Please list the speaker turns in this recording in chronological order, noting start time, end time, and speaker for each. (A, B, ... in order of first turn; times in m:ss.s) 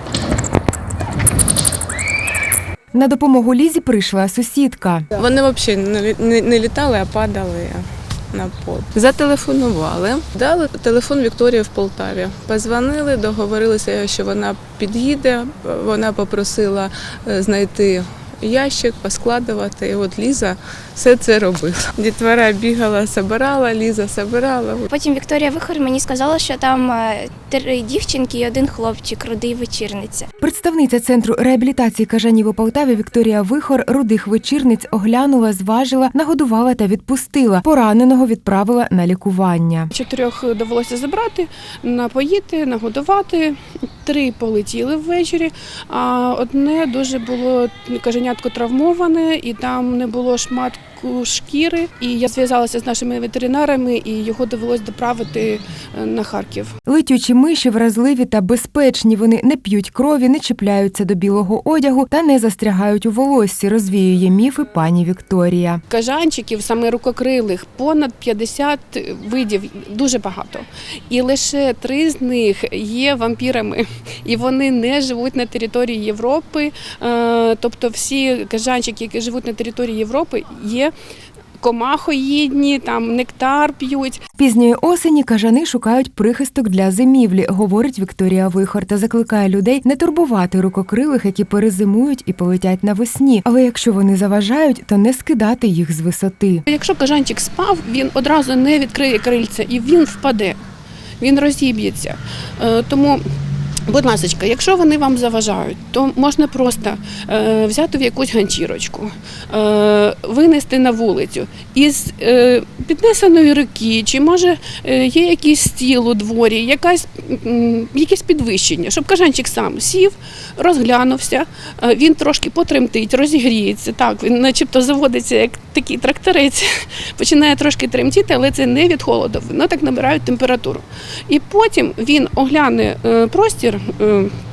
0:02.9-0:05.0 A
0:05.2-0:24.9 B
0:24.9-0:30.3 C
0:30.4-0:39.9 A
0:39.9-0:56.7 D
0:56.9-1:05.8 A
1:05.9-1:20.9 D
1:21.6-1:24.2 D
1:24.4-1:36.6 A
1:36.7-1:40.6 D
1:41.2-1:43.2 D
1:43.8-2:14.3 D